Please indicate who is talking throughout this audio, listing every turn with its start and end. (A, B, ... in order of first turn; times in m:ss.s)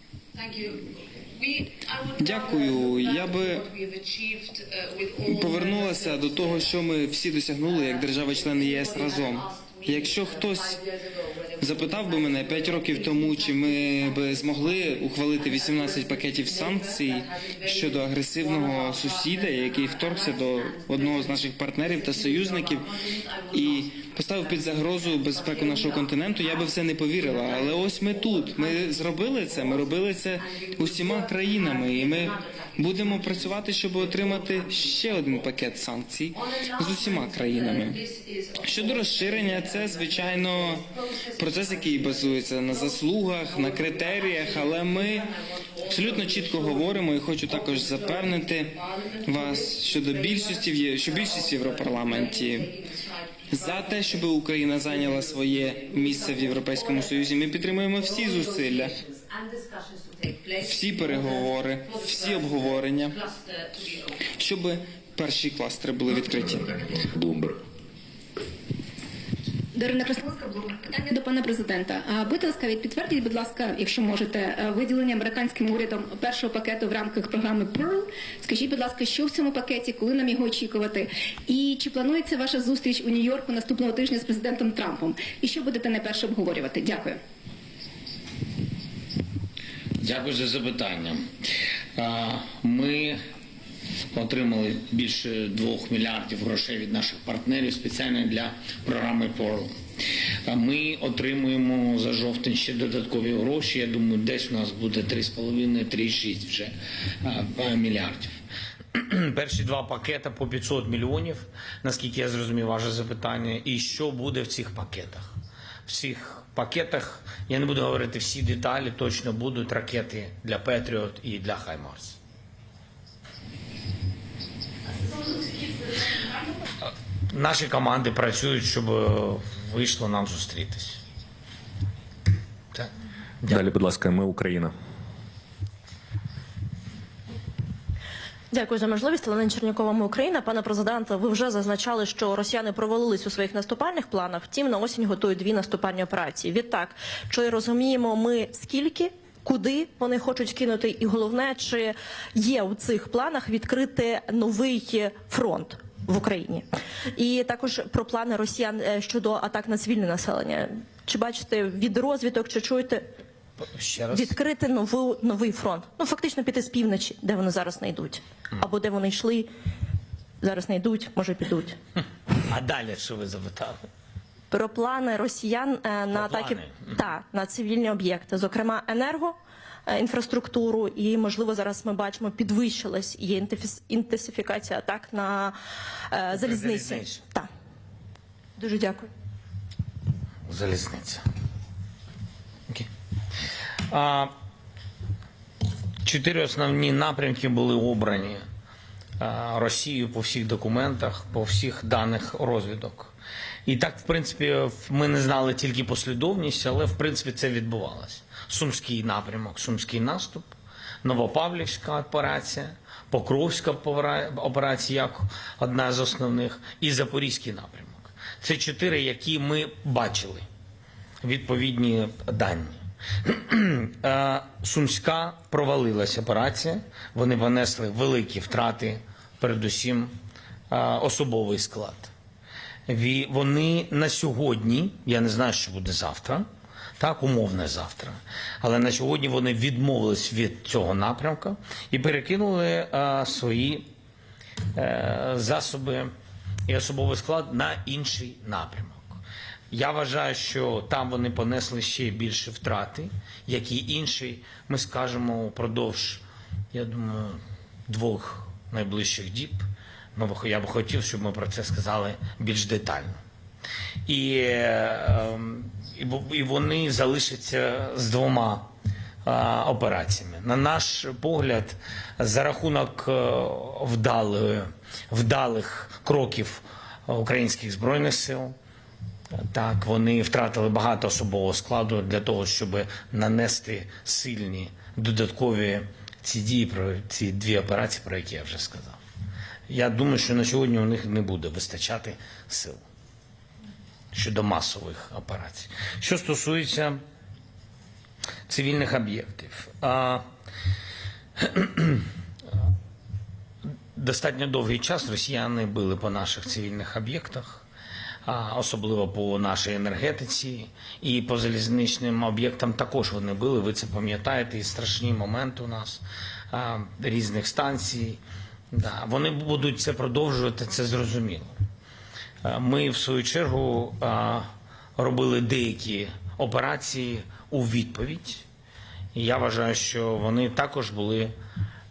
0:00.3-0:06.8 A
0:02.2-0:03.6 B
0:05.2-0:10.8 B
0:07.6-0:35.5 A
0:11.6-0:22.9 B
0:23.5-0:38.0 B
0:36.3-1:04.4 A
0:38.6-0:40.8 B
0:41.4-0:45.3 B
0:45.9-0:48.7 B
0:49.2-0:52.7 B
0:53.5-0:58.9 B
1:00.6-1:03.1 B
1:04.4-1:06.7 B
1:06.1-1:07.6 C
1:09.7-1:10.4 D
1:10.9-1:27.2 D
1:30.0-1:31.3 E
1:31.9-1:33.2 E
1:34.1-1:39.7 E
1:40.4-1:48.3 E
1:48.9-1:55.3 E
1:55.8-2:02.2 E
2:07.3-2:11.0 E
2:13.5-2:14.7 C
2:18.5-2:43.1 F
2:43.6-2:44.4 E
2:44.1-2:49.5 F
2:50.4-2:51.8 F
2:52.4-2:53.9 E
2:54.5-3:05.6 F
2:56.1-2:56.9 E
3:06.1-3:07.5 F
3:06.3-3:07.2 E
3:08.6-3:09.1 F
3:10.5-3:11.2 E
3:13.9-3:14.3 E
3:16.0-3:18.4 E
3:19.2-3:23.1 E
3:23.6-3:40.4 E
3:41.2-3:50.1 E
3:50.7-3:52.1 E
3:52.9-3:56.5 E
3:57.0-4:03.9 E
4:04.7-4:06.1 E
4:06.7-4:16.2 E
4:16.7-4:23.2 E
4:24.0-4:28.7 E
4:29.2-4:38.6 E
4:39.3-4:49.0 E
4:49.7-4:52.8 E
4:54.1-4:57.0 E
4:58.5-5:00.2 E
5:01.4-5:02.1 E
5:03.9-5:07.6 E
5:08.2-5:18.2 E
5:18.7-5:21.5 E
5:22.4-5:28.4 E
5:29.1-5:31.3 E